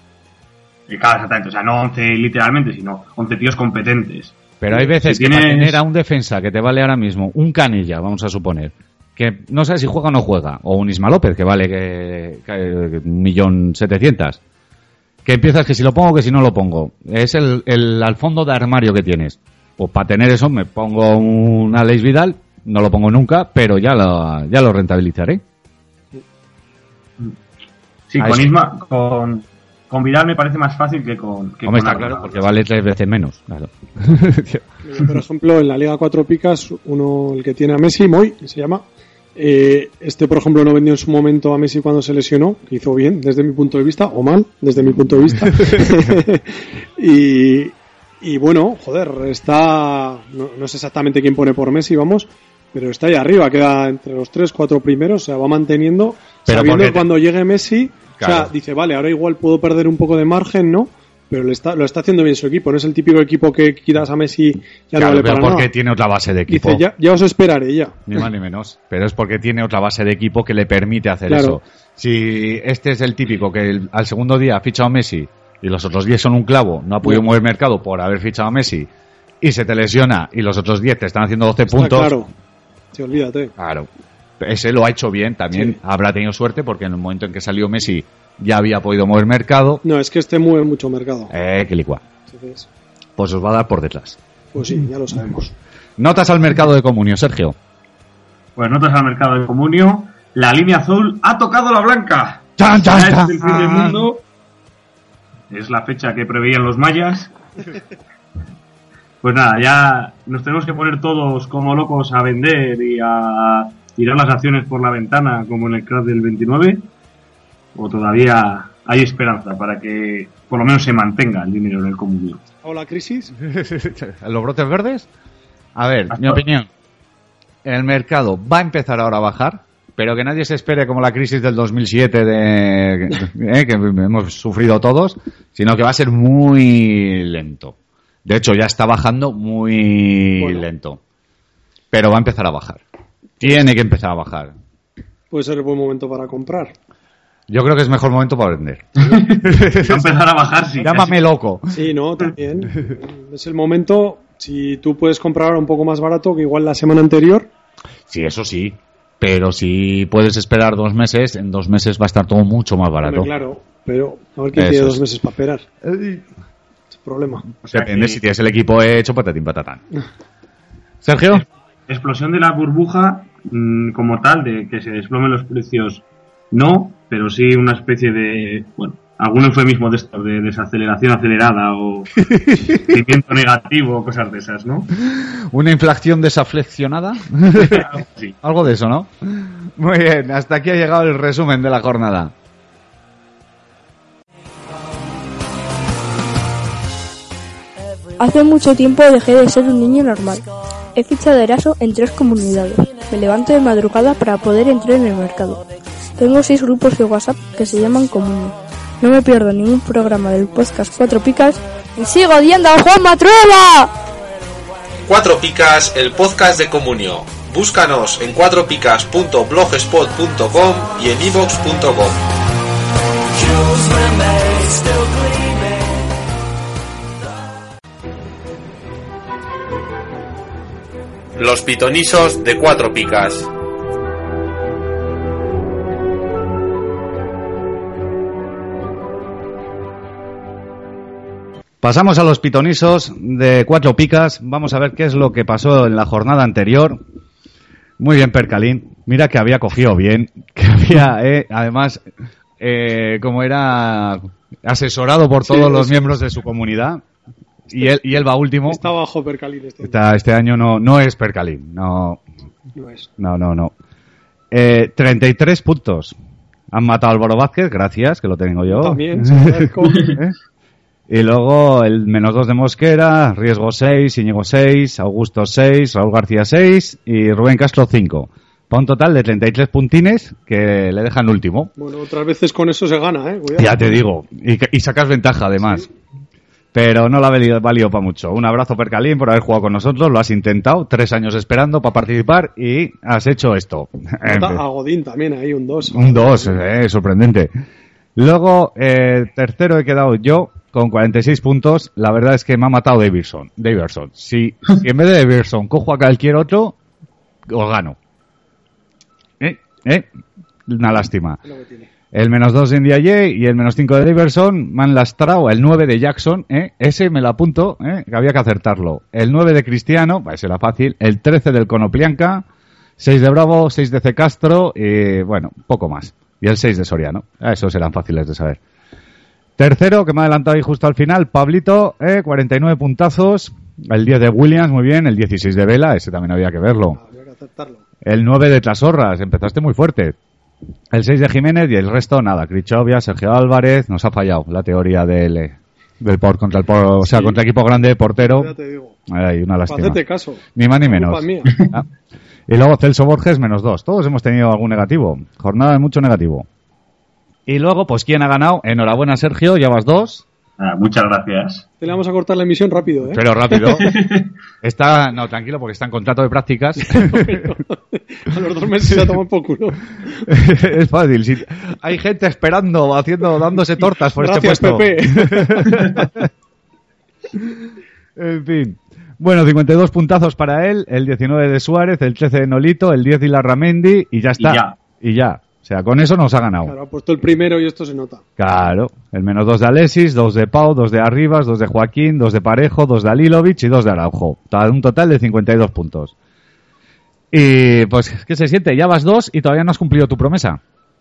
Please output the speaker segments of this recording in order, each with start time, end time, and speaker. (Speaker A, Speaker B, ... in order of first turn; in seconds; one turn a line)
Speaker A: 0.9-5.8
Speaker B: 4.6-14.4
Speaker B: 15.2-25.4
Speaker A: 28.1-32.5
Speaker B: 28.2-28.5
Speaker B: 31.6-34.6
Speaker C: 34.8-38.8
Speaker C: 39.4-65.7
Speaker B: 45.5-46.1
Speaker B: 56.5-57.1
Speaker B: 58.2-58.5
Speaker B: 65.0-66.8
Speaker C: 66.5-68.0
Speaker B: 68.1-78.9
Speaker C: 71.3-71.6
Speaker B: 79.4-82.2
Speaker C: 81.7-82.3
Speaker C: 82.9-83.5
Speaker B: 83.6-83.9
Speaker B: 84.4-89.8
Speaker C: 89.8-91.3
Speaker B: 91.3-92.0
Speaker C: 92.3-92.7
Speaker B: 93.2-94.2
Speaker C: 94.5-95.5
Speaker B: 96.0-97.5
Speaker A: 98.5-104.2
Speaker B: 102.6-104.0
Speaker A: 105.5-107.3
Speaker A: 109.2-116.9
Speaker A: 117.7-122.4
Speaker C: 122.6-123.3
Speaker B: 123.4-125.1
Speaker B: 125.7-126.7
Speaker A: 126.1-126.4
Speaker B: 127.6-141.0
Speaker C: 140.4-140.7
Speaker B: 141.9-142.8
Speaker B: 143.4-144.5
Speaker C: 145.3-146.7
Speaker B: 147.5-150.1
Speaker A: 149.0-151.2
Speaker B: 150.8-151.8
Speaker C: 151.7-157.5
Speaker B: 158.1-163.3
Speaker C: 163.0-165.6
Speaker B: 164.5-165.0
Speaker B: 165.8-166.2
Speaker C: 166.9-167.4
Speaker A: 167.6-168.2
Speaker B: 167.7-169.8
Speaker B: 171.0-171.4
Speaker A: 171.3-184.9
Speaker B: 182.3-182.7
Speaker B: 185.0-187.9
Speaker A: 187.5-188.4
Speaker B: 188.4-192.3
Speaker D: 198.2-200.4
Speaker D: 200.9-205.6
Speaker D: 206.2-213.9
Speaker E: 215.1-222.2
Speaker F: 223.2-226.1
Speaker E: 231.4-233.5
Speaker B: 241.8-247.0
Speaker B: 248.0-252.0
Speaker B: 252.6-257.0
Speaker C: 255.4-256.1
Speaker B: 257.7-258.8
Speaker C: 258.7-260.0
Speaker B: 259.8-262.2
Speaker C: 262.7-263.1
Speaker B: 263.2-263.7
Speaker B: 264.5-266.2
Speaker B: 266.7-270.4
Speaker C: 268.7-270.2
Speaker B: 271.1-281.7
Speaker C: 281.8-284.0
Speaker B: 283.6-285.9
Speaker B: 286.7-294.6
Speaker C: 294.2-296.6
Speaker B: 295.9-297.5
Speaker B: 298.2-306.8
Speaker B: 307.5-308.0
Speaker B: 309.4-310.1
Speaker B: 310.7-311.4
Speaker C: 311.4-311.9
Speaker B: 312.1-322.4
Speaker B: 323.0-328.6
Speaker B: 329.6-337.0
Speaker C: 336.9-337.8
Speaker B: 338.0-340.2
Speaker B: 340.9-348.5
Speaker C: 347.0-347.4
Speaker C: 348.2-349.0
Speaker B: 349.1-350.0
Speaker C: 349.7-351.6
Speaker B: 350.6-351.9
Speaker B: 352.5-356.5
Speaker B: 357.4-360.2
Speaker A: 360.6-361.7
Speaker C: 361.8-363.7
Speaker B: 363.1-364.0
Speaker A: 363.7-364.3
Speaker B: 364.6-367.4
Speaker C: 366.8-370.3
Speaker B: 370.3-376.2
Speaker C: 374.1-376.1
Speaker B: 378.2-386.7
Speaker A: 384.4-384.8
Speaker C: 386.6-388.2
Speaker B: 388.4-396.1
Speaker B: 397.3-400.6